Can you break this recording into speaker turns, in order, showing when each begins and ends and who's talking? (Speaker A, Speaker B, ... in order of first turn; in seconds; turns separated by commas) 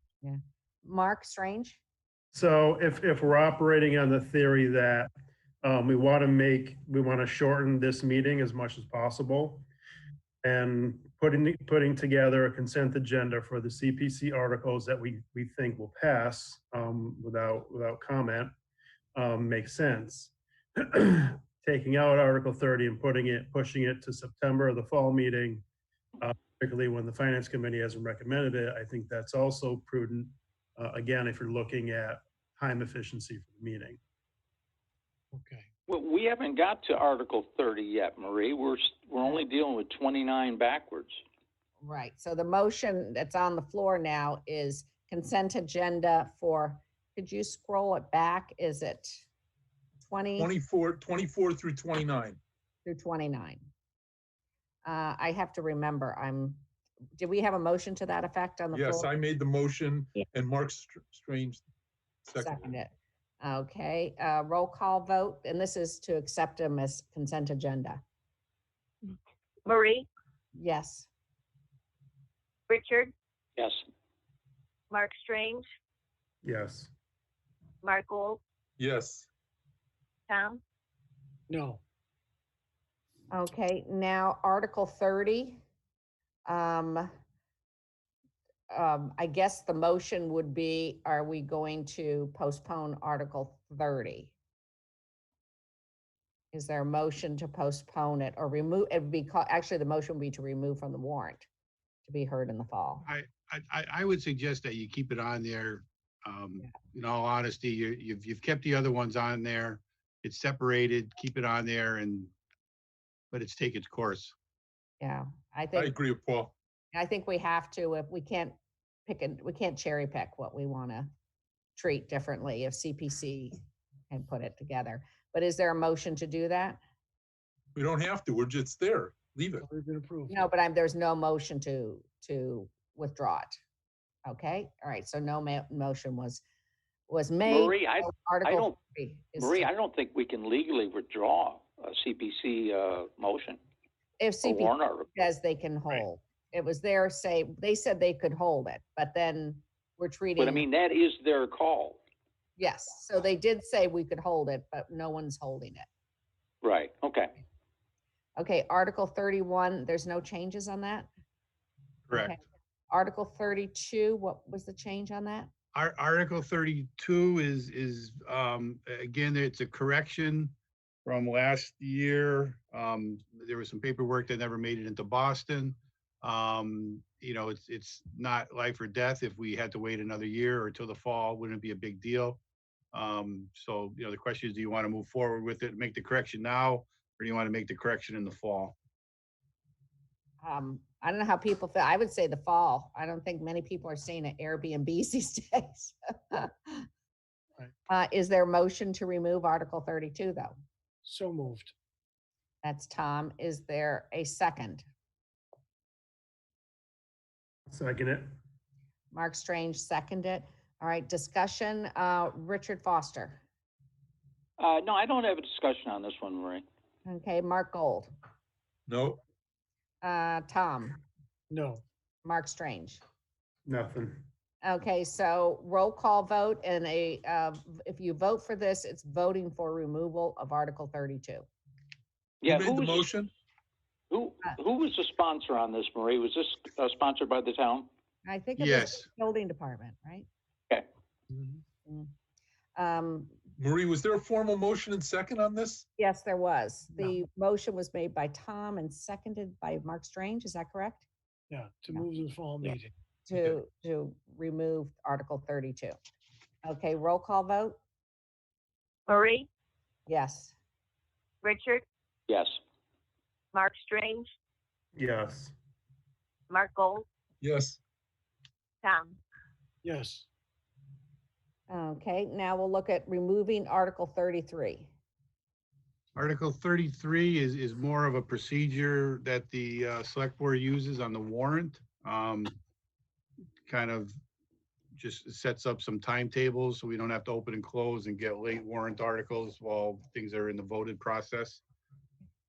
Speaker A: 0.2-1.8, Speaker B: 2.3-9.7, Speaker B: 10.4-18.5, Speaker B: 19.1-25.6, Speaker B: 26.2-34.0, Speaker C: 35.3-35.6, Speaker D: 35.9-41.2, Speaker A: 41.8-49.2, Speaker A: 50.1-50.5, Speaker E: 50.4-52.4, Speaker A: 52.9-53.7, Speaker A: 54.8-56.6, Speaker A: 57.2-59.1, Speaker E: 58.7-61.6, Speaker E: 62.2-62.7, Speaker A: 62.4-62.9, Speaker A: 63.4-68.0, Speaker F: 69.7-70.1, Speaker A: 70.5-71.1, Speaker F: 72.7-73.1, Speaker F: 74.9-75.6, Speaker B: 76.4-76.9, Speaker F: 77.8-78.4, Speaker E: 78.8-79.3, Speaker F: 80.3-80.6, Speaker C: 81.5-81.8, Speaker A: 83.3-85.6, Speaker A: 86.5-87.1, Speaker A: 88.7-94.3, Speaker A: 96.5-101.5, Speaker A: 102.0-103.0, Speaker G: 103.0-112.3, Speaker G: 113.3-114.3, Speaker A: 115.0-115.9, Speaker E: 115.7-116.5, Speaker A: 116.9-121.1, Speaker A: 121.8-123.6, Speaker A: 124.1-126.8, Speaker E: 127.7-129.7, Speaker C: 129.7-130.4, Speaker A: 130.3-133.6, Speaker A: 134.2-136.4, Speaker A: 137.1-139.7, Speaker D: 137.4-138.7, Speaker D: 139.4-143.6, Speaker A: 144.2-150.7, Speaker D: 144.4-145.2, Speaker D: 150.4-152.0, Speaker A: 152.6-155.9, Speaker D: 156.6-157.3, Speaker A: 158.4-161.1, Speaker G: 162.1-162.3, Speaker A: 162.1-162.4, Speaker A: 162.9-165.5, Speaker G: 165.7-170.5, Speaker G: 171.0-182.4, Speaker G: 182.9-188.7, Speaker A: 190.4-196.9, Speaker A: 197.9-200.5, Speaker C: 201.1-201.7, Speaker A: 202.6-204.8, Speaker B: 207.7-208.3, Speaker A: 209.1-213.4, Speaker D: 214.6-216.6, Speaker A: 217.1-218.1, Speaker E: 218.9-219.2, Speaker A: 220.0-221.0, Speaker C: 221.5-221.8, Speaker A: 222.2-223.0, Speaker B: 223.7-224.2, Speaker A: 224.6-231.4, Speaker D: 232.4-233.1, Speaker E: 232.4-233.3, Speaker D: 234.1-237.9, Speaker A: 238.2-240.3, Speaker G: 238.6-239.1, Speaker A: 242.8-243.3, Speaker E: 243.6-245.8, Speaker A: 246.0-251.1, Speaker C: 251.5-253.5, Speaker A: 253.3-255.9, Speaker A: 256.6-257.8, Speaker F: 259.1-259.5, Speaker A: 260.1-260.5, Speaker F: 261.4-261.8, Speaker D: 262.3-262.6, Speaker F: 263.5-264.3, Speaker B: 264.9-265.5, Speaker F: 266.5-267.1, Speaker E: 267.4-267.8, Speaker F: 268.8-269.2, Speaker C: 269.8-270.2, Speaker A: 271.7-274.9, Speaker G: 276.1-282.5, Speaker G: 283.7-284.1, Speaker G: 284.9-291.6